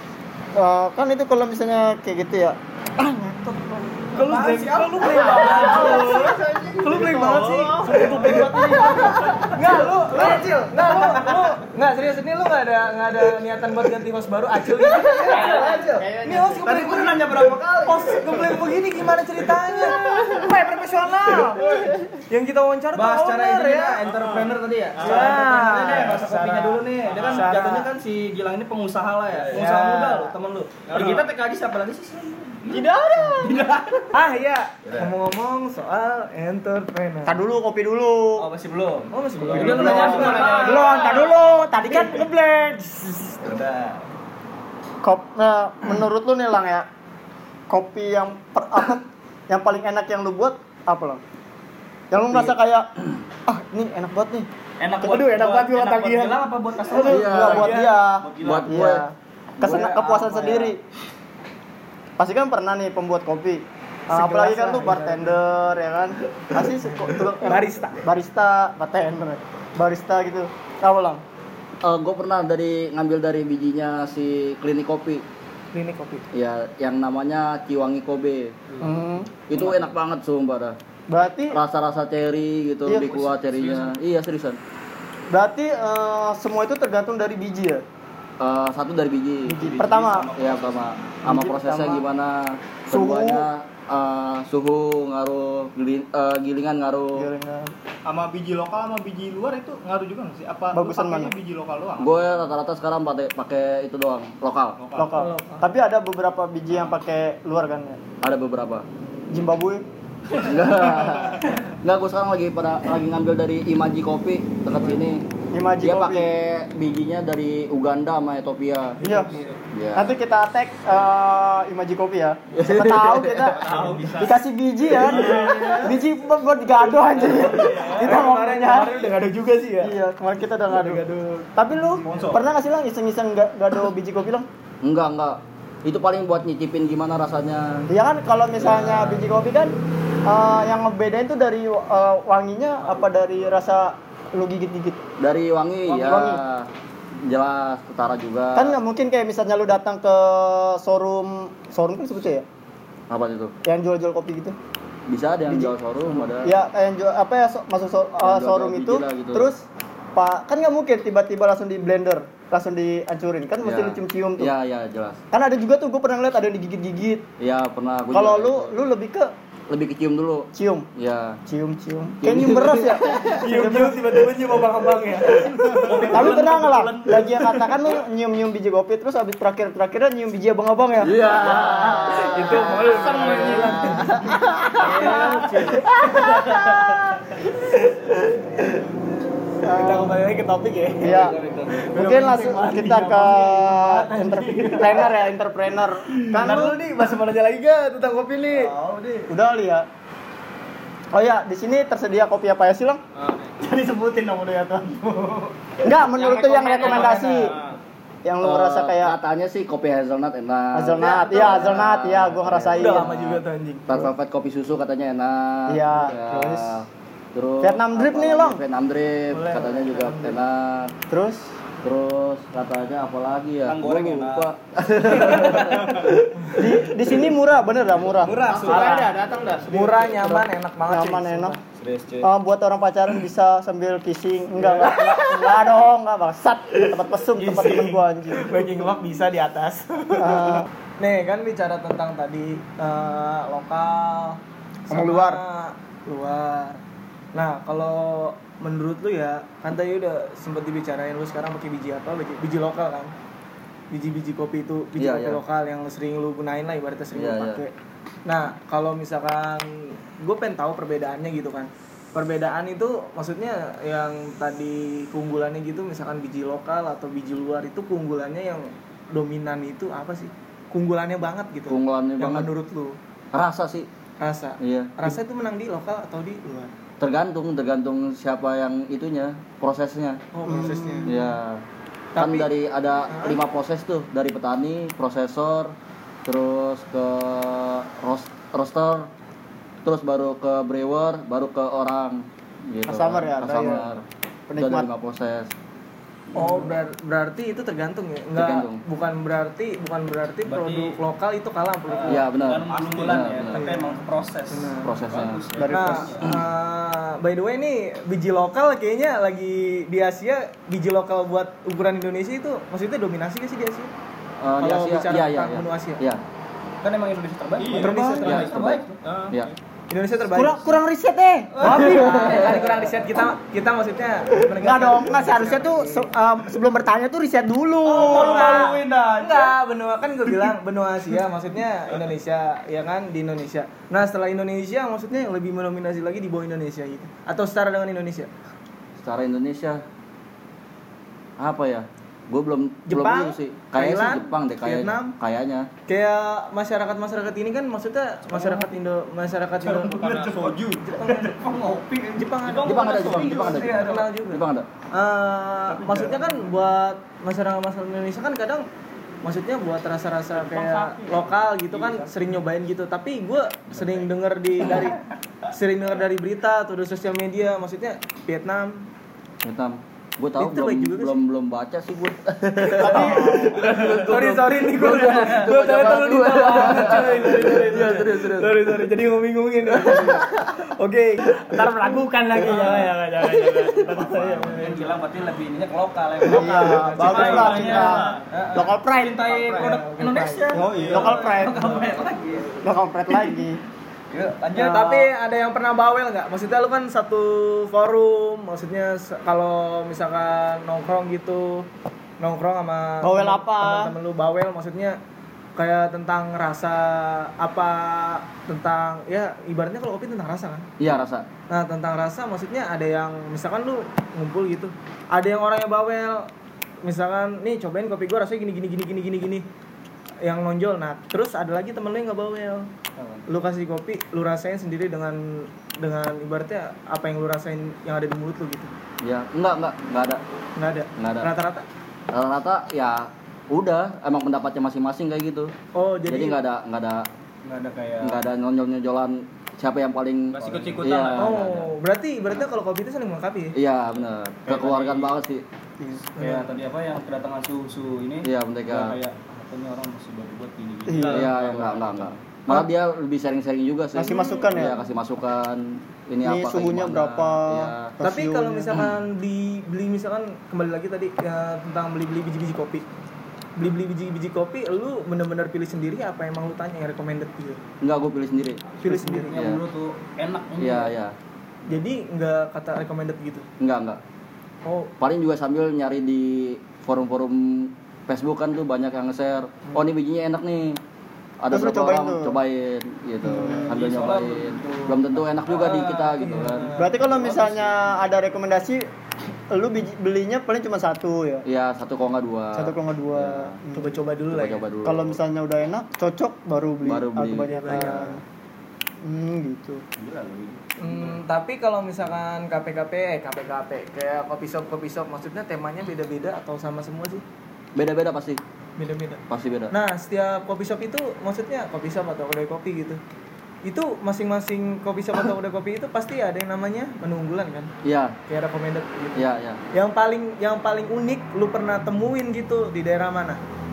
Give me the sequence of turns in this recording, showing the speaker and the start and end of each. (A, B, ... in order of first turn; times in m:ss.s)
0:00.5-0:04.1 A
0:04.1-0:24.2 B
0:04.1-0:06.3 C
0:05.0-0:09.5 D
0:05.2-0:09.6 A
0:08.2-0:09.0 C
0:10.2-0:10.4 D
0:11.0-0:11.4 A
0:14.9-0:18.6 D
0:15.1-0:18.0 C
0:16.0-0:16.6 A
0:21.6-0:21.9 D
0:22.9-0:34.1 C
0:24.0-0:26.3 D
0:25.0-0:27.9 B
0:27.0-0:27.6 D
0:29.5-0:30.3 B
0:30.9-0:31.3 D
0:32.6-0:33.8 D
0:34.1-0:37.4 B
0:34.8-0:35.1 C
0:37.2-0:38.5 A
0:38.4-0:41.3 C
0:39.1-0:41.2 B
0:39.5-0:43.5 A
0:39.5-0:41.3 D
0:43.4-0:44.0 C
0:45.0-0:46.8 A
0:47.7-0:51.2 A
0:52.1-0:52.9 A
0:53.4-0:54.5 A
0:54.8-0:58.9 C
0:55.0-1:00.8 A
0:57.0-0:57.8 E
0:57.4-0:58.0 B
0:58.4-0:59.0 E
0:59.6-1:00.7 B
0:59.6-1:00.6 C
1:02.2-1:11.2 A
1:04.1-1:05.4 B
1:06.8-1:08.0 B
1:11.8-1:15.2 E
1:15.7-1:16.2 B
1:16.3-1:18.5 E
1:18.8-1:19.3 A
1:19.5-1:20.8 E
1:19.5-1:19.8 C
1:21.1-1:21.6 A
1:21.5-1:24.6 E
1:22.8-1:23.2 A
1:23.2-1:23.9 C
1:25.3-1:27.8 A
1:28.4-1:37.3 E
1:29.4-1:30.3 A
1:29.7-1:30.9 C
1:31.2-1:32.0 A
1:32.9-1:33.4 A
1:37.1-1:37.7 A
1:38.0-1:42.4 D
1:40.7-1:41.4 A
1:42.0-1:44.8 E
1:44.8-1:45.2 D
1:44.9-1:48.0 A
1:45.1-1:45.6 B
1:48.2-1:48.8 E
1:49.3-1:49.8 A
1:50.4-1:55.2 E
1:55.5-1:56.3 A
1:55.8-1:59.0 E
1:59.0-1:59.5 B
1:59.0-1:59.3 A
1:59.0-1:59.3 D
1:59.7-2:00.1 E
1:59.9-2:09.1 A
2:02.5-2:03.6 E
2:03.4-2:04.4 D
2:04.9-2:06.0 D
2:07.2-2:08.2 D
2:07.6-2:10.0 B
2:09.8-2:11.0 A
2:10.7-2:12.2 B
2:11.5-2:14.5 A
2:12.0-2:12.5 D
2:12.1-2:12.4 C
2:14.8-2:17.9 E
2:17.9-2:25.0 A
2:18.6-2:19.4 E
2:25.2-2:26.7 E
2:25.9-2:26.4 A
2:27.2-2:28.8 E
2:28.5-2:32.4 A
2:33.1-2:33.5 E
2:33.6-2:34.6 A
2:35.1-2:36.5 E
2:35.5-2:44.5 A
2:38.2-2:39.5 E
2:43.6-2:45.2 E
2:45.3-2:47.2 A
2:47.4-2:48.8 E
2:48.1-2:49.3 A
2:49.7-2:51.4 E
2:50.5-2:50.9 A
2:51.4-2:54.2 A
2:52.2-2:53.8 E
2:53.3-2:56.1 B
2:55.6-2:57.5 D
2:55.7-3:01.2 A
2:55.8-2:57.5 C
3:01.0-3:05.3 E
3:01.4-3:04.3 B
3:02.2-3:05.8 A
3:04.8-3:06.8 B
3:04.8-3:05.4 C
3:06.1-3:06.8 E
3:06.4-3:07.0 A
3:09.6-3:10.2 A
3:09.6-3:15.1 B
3:11.0-3:16.8 A
3:11.0-3:11.8 C
3:16.3-3:18.7 B
3:18.5-3:19.3 C
3:19.3-3:19.8 A
3:21.1-3:23.0 A
3:23.2-3:25.5 D
3:25.8-3:27.5 A
3:26.1-3:27.6 B
3:26.2-3:27.3 C
3:26.7-3:27.8 D
3:28.2-3:29.1 A
3:28.4-3:40.9 E
3:30.7-3:33.1 A
3:31.0-3:31.8 B
3:32.8-3:33.9 B
3:35.7-3:36.8 A
3:37.6-3:38.6 A
3:39.3-3:40.4 B
3:41.1-3:41.5 A
3:41.8-3:46.4 E
3:43.6-3:44.5 C
3:46.6-3:49.1 A
3:48.2-3:50.3 C
3:48.4-3:49.7 D
3:48.6-3:49.1 B
3:49.7-3:51.6 B
3:50.2-3:51.6 A
3:51.7-3:52.3 C
3:52.2-3:58.6 A
3:54.6-3:55.2 B
3:57.4-4:06.8 B
4:00.2-4:00.7 A
4:04.9-4:05.4 A
4:07.3-4:13.1 B
4:13.9-4:17.7 B
4:15.0-4:15.4 E
4:17.1-4:17.6 E
4:18.3-4:33.0 B
4:31.7-4:32.5 E
4:33.3-4:33.9 E
4:34.2-4:36.7 B
4:34.6-4:35.1 E
4:37.0-4:40.2 E
4:40.3-4:41.2 B
4:40.4-4:41.2 A
4:41.0-4:41.6 E
4:42.1-4:42.5 B
4:42.2-4:45.7 E
4:43.1-4:43.4 B
4:46.2-4:49.1 E
4:49.8-4:54.0 E
4:52.8-4:54.0 A
4:54.5-4:54.9 A
4:54.6-4:55.5 E
4:56.3-4:56.8 E
4:56.3-5:02.2 B
4:58.3-4:58.8 E
5:00.4-5:01.0 C
5:01.9-5:06.3 C
5:02.1-5:03.6 E
5:02.9-5:03.2 D
5:03.5-5:04.9 B
5:04.8-5:05.5 E
5:05.6-5:06.2 A
5:05.7-5:13.9 B
5:14.4-5:16.2 E
5:14.6-5:16.0 B
5:16.8-5:19.0 C
5:17.6-5:18.3 D
5:17.8-5:18.5 B
5:18.2-5:19.5 E
5:19.0-5:19.5 D
5:19.9-5:20.8 B
5:20.3-5:22.5 A
5:21.5-5:22.6 C
5:21.6-5:26.1 B
5:21.6-5:22.6 E
5:24.5-5:28.7 A
5:27.8-5:29.5 C
5:27.8-5:38.3 B
5:28.1-5:29.0 D
5:39.0-5:39.8 E
5:41.4-5:45.7 E
5:42.9-5:45.1 B
5:45.9-5:51.4 B
5:48.3-5:48.7 C
5:49.6-5:53.6 D
5:52.1-5:58.6 B
5:52.5-5:54.1 C
5:52.6-5:54.7 E
5:55.7-5:56.3 C
5:59.2-6:05.0 B
6:00.5-6:01.1 D
6:00.5-6:02.4 C
6:03.7-6:04.1 C
6:05.5-6:08.9 B
6:09.4-6:18.8 E
6:10.4-6:11.2 B
6:12.8-6:13.5 A
6:12.8-6:24.9 B
6:13.6-6:14.0 D
6:15.0-6:15.5 C
6:19.7-6:20.6 E
6:22.4-6:22.9 C
6:23.5-6:24.0 E
6:24.1-6:32.6 C
6:26.3-6:29.7 A
6:26.3-6:28.2 B
6:27.0-6:28.2 D
6:29.3-6:29.7 D
6:29.4-6:32.0 B
6:30.5-6:31.5 D
6:30.8-6:31.9 A
6:32.6-6:33.6 A
6:34.1-6:35.1 C
6:34.5-6:41.7 B
6:42.2-6:45.0 B
6:43.0-6:43.9 A
6:45.6-6:50.6 B
6:50.8-6:51.2 E
6:51.5-6:56.3 B
6:56.8-6:59.4 B
7:00.2-7:02.7 B
7:03.0-7:03.2 C
7:03.3-7:08.7 B
7:09.0-7:10.2 E
7:10.6-7:11.6 B
7:11.0-7:11.3 E
7:12.1-7:15.5 E
7:15.7-7:16.4 B
7:16.1-7:17.1 E
7:17.4-7:18.2 C
7:18.0-7:21.6 E
7:20.4-7:21.2 D
7:20.4-7:21.7 C
7:21.2-7:23.5 B
7:23.5-7:25.4 E
7:24.4-7:25.1 C
7:26.2-7:26.5 B
7:26.2-7:32.1 C
7:28.2-7:29.0 E
7:30.9-7:31.2 A
7:31.0-7:31.3 D
7:31.1-7:37.9 E
7:33.9-7:34.8 A
7:34.1-7:34.5 B
7:36.2-7:38.7 A
7:38.0-7:42.8 B
7:38.7-7:39.0 E
7:43.6-7:47.6 B
7:47.8-7:48.7 E
7:48.8-7:49.4 B
7:48.8-7:50.9 C
7:49.3-7:49.6 E
7:50.6-7:51.1 E
7:51.7-7:53.4 B
7:53.6-7:54.0 E
7:54.6-7:54.9 B
7:55.0-8:00.8 E
8:01.4-8:07.7 E
8:01.5-8:02.4 A
8:03.2-8:03.7 A
8:03.4-8:07.5 C
8:06.2-8:06.8 B
8:06.7-8:08.9 A
8:09.5-8:11.4 A
8:11.4-8:13.6 E
8:12.5-8:14.0 A
8:13.7-8:14.6 B
8:14.3-8:15.2 E
8:14.8-8:18.2 A
8:16.8-8:18.2 E
8:17.4-8:18.0 B
8:19.0-8:19.8 A
8:20.0-8:21.1 C
8:20.8-8:27.2 B
8:27.8-8:28.4 E
8:28.8-8:33.0 B
8:29.3-8:29.7 E
8:33.6-8:37.7 B
8:37.8-8:38.2 E
8:38.3-8:43.4 B
8:39.1-8:39.6 E